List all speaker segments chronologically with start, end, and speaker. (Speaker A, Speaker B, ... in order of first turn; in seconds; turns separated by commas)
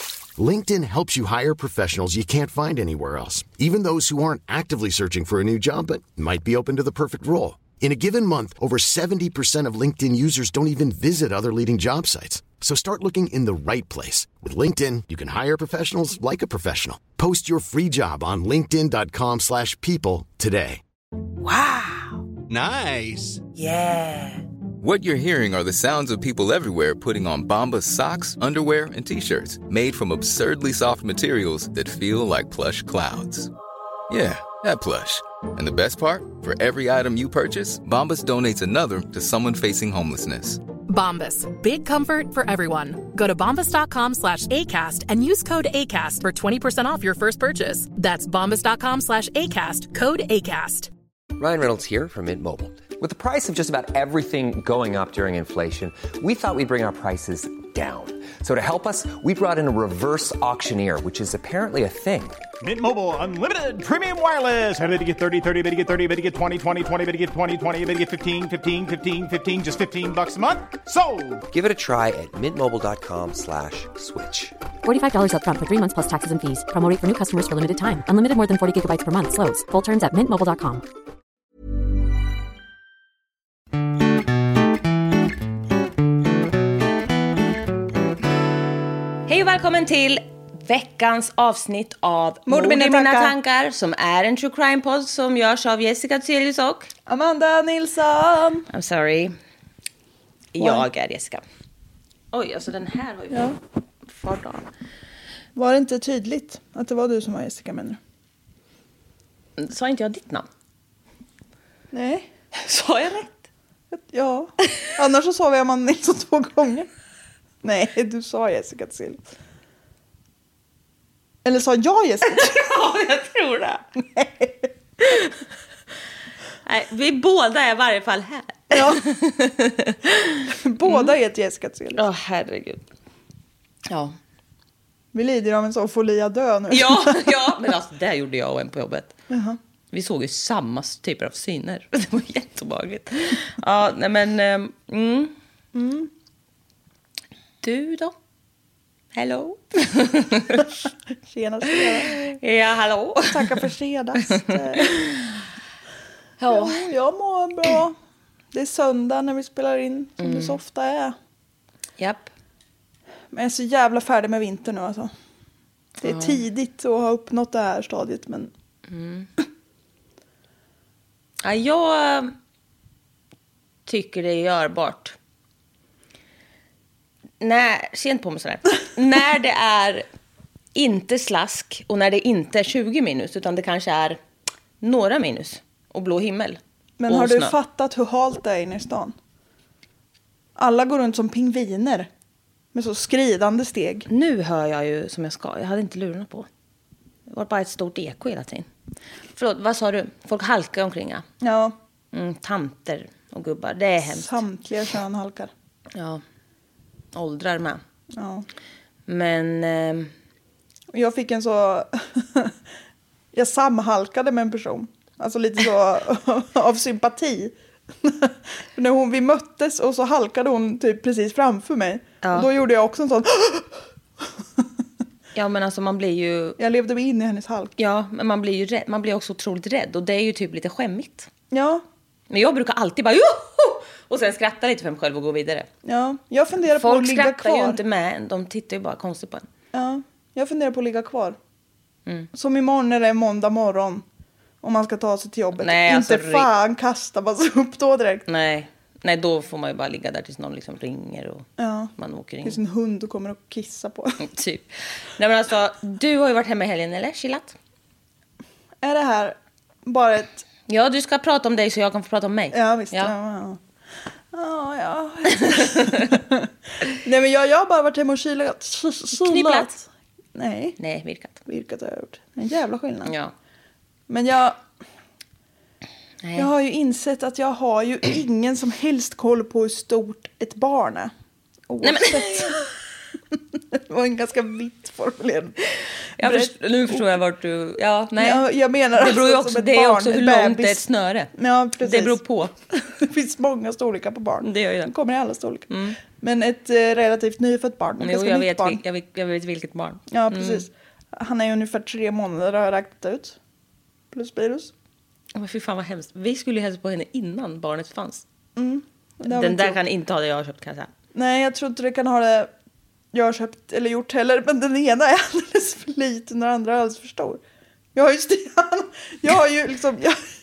Speaker A: 0.3-20.8, Speaker B: 21.4-22.2, Speaker C: 22.5-23.4, Speaker B: 23.6-24.4, Speaker D: 24.8-33.5, Speaker D: 34.1-40.6, Speaker E: 40.9-50.9, Speaker F: 51.4-62.4, Speaker C: 62.6-71.4, Speaker F: 71.5-74.5, Speaker G: 74.8-80.8, Speaker B: 89.3-96.9, Speaker H: 92.5-93.3, Speaker H: 97.1-98.7, Speaker B: 98.7-99.3, Speaker B: 100.5-101.4, Speaker H: 100.6-100.8, Speaker B: 102.3-103.5, Speaker H: 103.3-103.6, Speaker B: 104.0-104.7, Speaker H: 105.5-108.0, Speaker B: 109.6-110.5, Speaker H: 111.9-112.3, Speaker B: 112.5-113.3, Speaker H: 113.9-116.9, Speaker H: 117.6-119.2, Speaker H: 121.4-122.6, Speaker B: 122.2-123.8, Speaker H: 124.1-124.7, Speaker B: 126.6-131.1, Speaker H: 128.7-129.1, Speaker H: 130.5-132.0, Speaker B: 131.9-132.8, Speaker B: 133.9-134.1, Speaker H: 135.1-137.4, Speaker B: 136.7-139.1, Speaker H: 139.3-139.6, Speaker B: 139.9-145.3, Speaker H: 145.7-146.1, Speaker B: 147.6-148.1, Speaker B: 149.1-150.7, Speaker H: 151.3-152.4, Speaker B: 151.7-153.6, Speaker H: 153.3-154.9, Speaker B: 154.4-155.4, Speaker B: 156.4-156.9, Speaker H: 156.5-157.9, Speaker H: 158.5-161.1, Speaker B: 160.2-160.6, Speaker B: 162.0-162.3, Speaker H: 163.3-165.1, Speaker B: 166.0-166.4, Speaker H: 166.0-168.5, Speaker B: 168.9-169.3, Speaker B: 171.4-172.3, Speaker B: 173.8-175.2, Speaker B: 177.4-180.0, Speaker B: 180.7-184.2, Speaker B: 184.8-187.6, Speaker H: 187.0-189.1, Speaker H: 190.6-192.1, Speaker H: 192.7-194.1, Speaker B: 194.1-196.5, Speaker B: 197.3-198.7, Speaker B: 199.3-201.2, Speaker H: 201.4-201.8, Speaker B: 202.1-204.4, Speaker H: 204.0-205.5, Speaker B: 205.9-206.2, Speaker B: 207.1-207.8, Speaker H: 208.2-208.4, Speaker B: 209.1-210.1, Speaker H: 210.9-212.5, Speaker H: 213.3-223.7, Speaker B: 222.2-222.5, Speaker B: 225.3-226.6, Speaker H: 226.6-227.7, Speaker B: 227.8-231.3, Speaker H: 231.5-231.8, Speaker B: 232.3-235.7, Speaker H: 235.8-237.8, Speaker B: 236.7-239.4, Speaker H: 239.7-241.4, Speaker B: 242.1-242.3, Speaker H: 242.3-244.0, Speaker H: 244.6-248.2, Speaker B: 245.6-246.5, Speaker B: 248.3-252.6, Speaker H: 251.6-251.9, Speaker H: 252.4-254.2, Speaker B: 254.2-257.6, Speaker H: 258.8-260.4, Speaker B: 260.7-263.1, Speaker H: 262.5-263.6, Speaker H: 264.3-270.8, Speaker B: 269.2-269.7, Speaker B: 270.8-271.4, Speaker H: 271.4-273.1, Speaker B: 273.0-273.3, Speaker H: 274.1-274.6, Speaker B: 276.2-276.5, Speaker H: 276.4-281.1, Speaker H: 281.7-282.5, Speaker B: 281.8-282.7, Speaker H: 283.7-285.6, Speaker B: 286.2-292.5, Speaker H: 286.2-287.1, Speaker H: 288.2-292.2, Speaker H: 292.7-298.8, Speaker B: 294.4-294.9, Speaker B: 295.7-296.0, Speaker B: 298.0-300.7, Speaker H: 300.1-303.4, Speaker H: 304.1-304.7, Speaker B: 305.3-308.2, Speaker H: 308.6-309.8, Speaker B: 309.3-310.9, Speaker H: 311.1-312.5, Speaker H: 313.1-317.4, Speaker H: 317.9-320.2